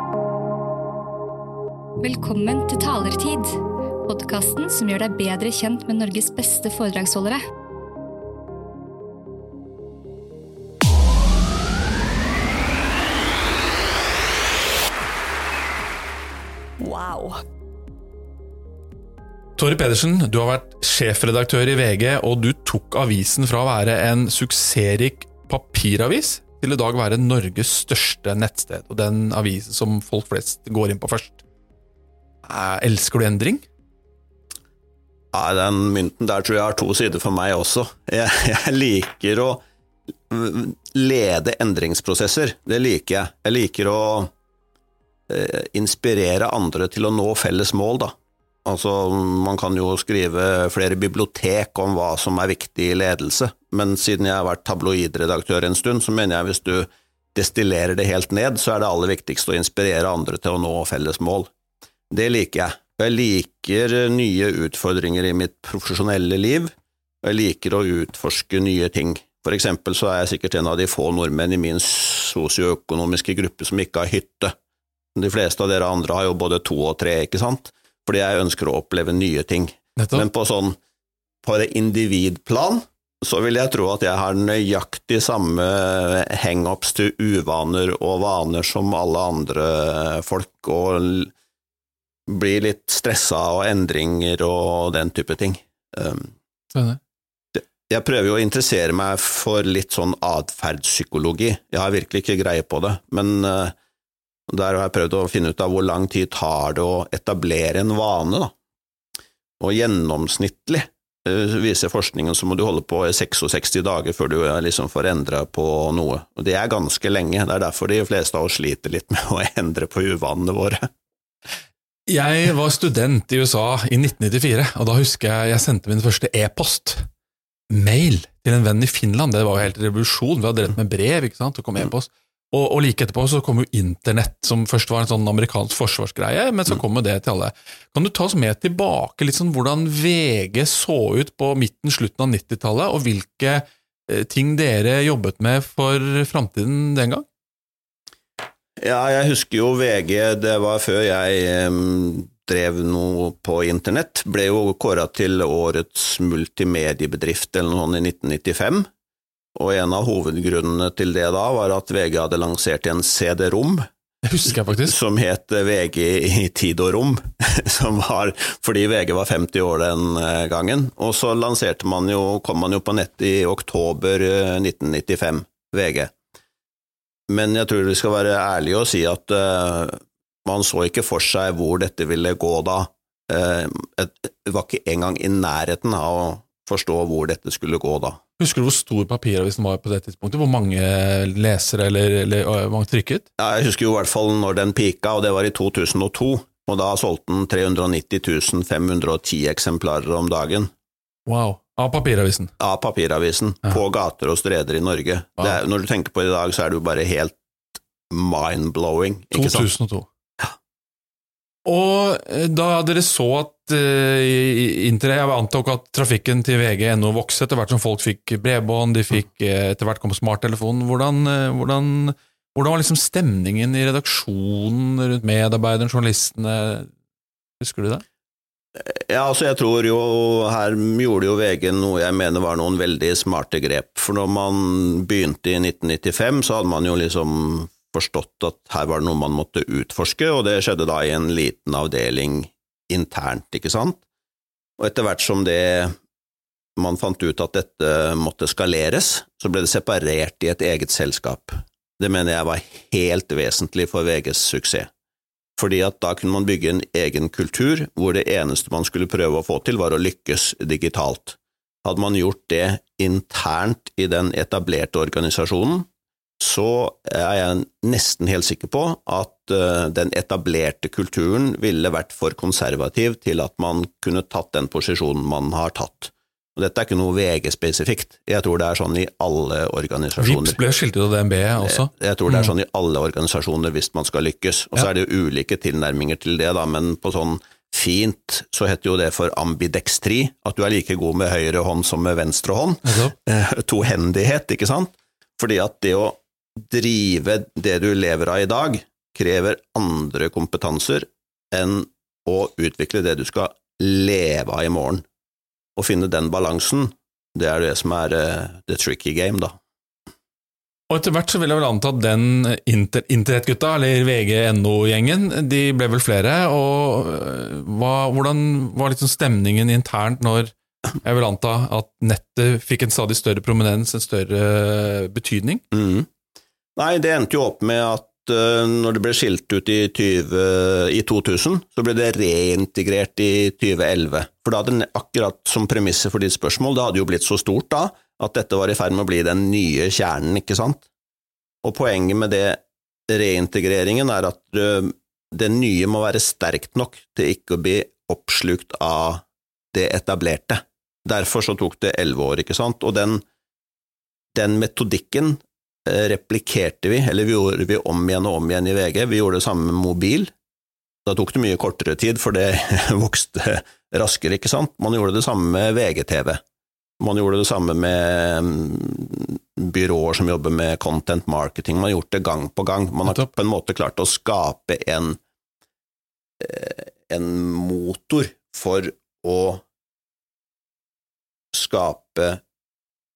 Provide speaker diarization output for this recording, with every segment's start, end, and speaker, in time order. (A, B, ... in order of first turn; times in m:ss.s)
0:02.0-0:07.4 A
0:16.8-0:17.4 A
0:19.6-0:31.4 B
0:32.4-0:33.6 B
0:35.3-0:39.6 C
0:40.3-0:44.3 C
0:45.3-1:01.5 C
1:02.1-1:14.5 C
1:15.1-1:20.8 C
1:20.0-1:20.2 B
1:21.4-1:31.3 C
1:32.3-1:36.3 C
1:36.7-1:37.0 B
1:37.5-1:43.7 C
1:44.5-1:48.5 C
1:49.6-2:00.9 C
2:02.1-2:07.1 B
2:07.7-2:27.2 B
2:28.8-2:38.9 C
2:39.5-2:43.9 C
2:44.2-2:44.9 B
2:44.8-2:56.1 C
2:57.3-3:08.2 C
3:08.4-3:13.2 B
3:13.4-3:20.7 C
3:21.2-3:22.5 B
3:22.6-3:27.4 C
3:28.1-3:29.7 C
3:29.3-3:30.1 B
3:31.6-3:46.9 B
3:47.6-3:48.0 B
3:48.8-4:04.0 C
4:04.8-4:06.0 C
4:06.8-4:14.9 C
4:15.6-4:25.9 C
4:26.4-4:40.6 C
4:40.2-4:42.5 B
4:41.6-5:05.0 C
4:52.8-4:53.1 B
5:05.8-5:09.6 C
5:10.9-5:25.6 B
5:25.7-5:26.1 C
5:26.8-5:40.8 C
5:41.6-5:53.2 C
5:54.3-6:00.3 C
6:01.0-6:06.4 C
6:07.0-6:15.2 C
6:16.4-6:19.6 C
6:21.5-6:22.4 C